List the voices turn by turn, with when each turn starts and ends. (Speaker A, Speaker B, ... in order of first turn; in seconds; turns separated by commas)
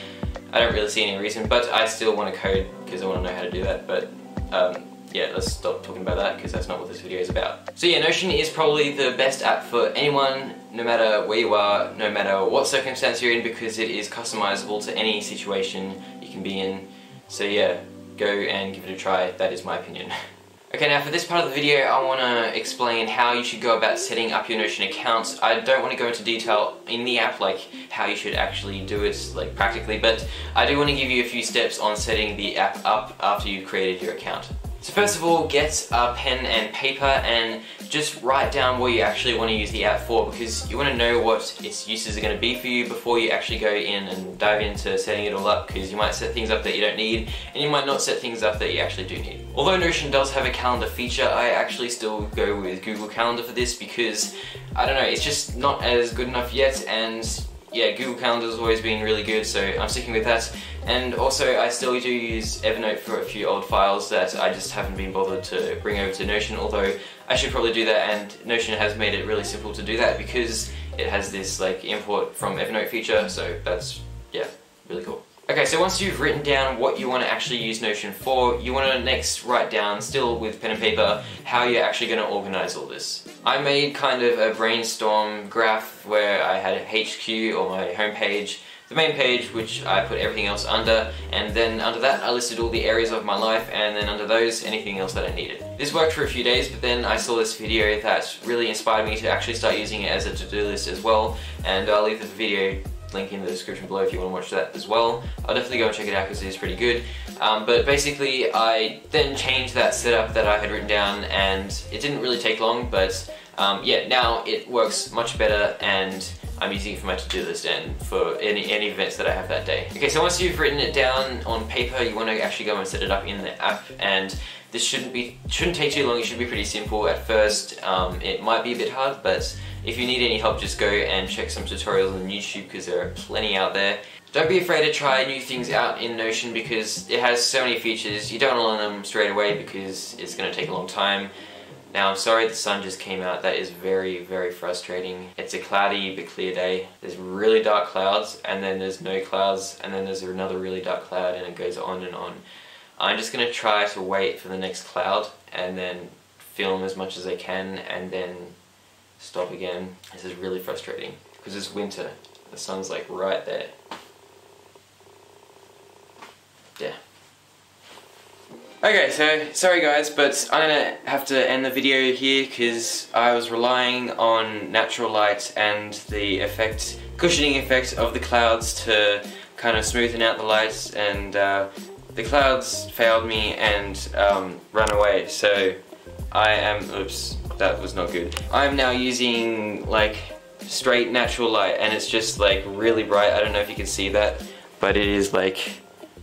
Speaker A: 0.5-20.1, Speaker A: 20.7-141.3, Speaker A: 141.9-152.4, Speaker A: 153.0-158.6, Speaker A: 159.2-163.7, Speaker A: 168.8-185.8, Speaker A: 186.3-195.8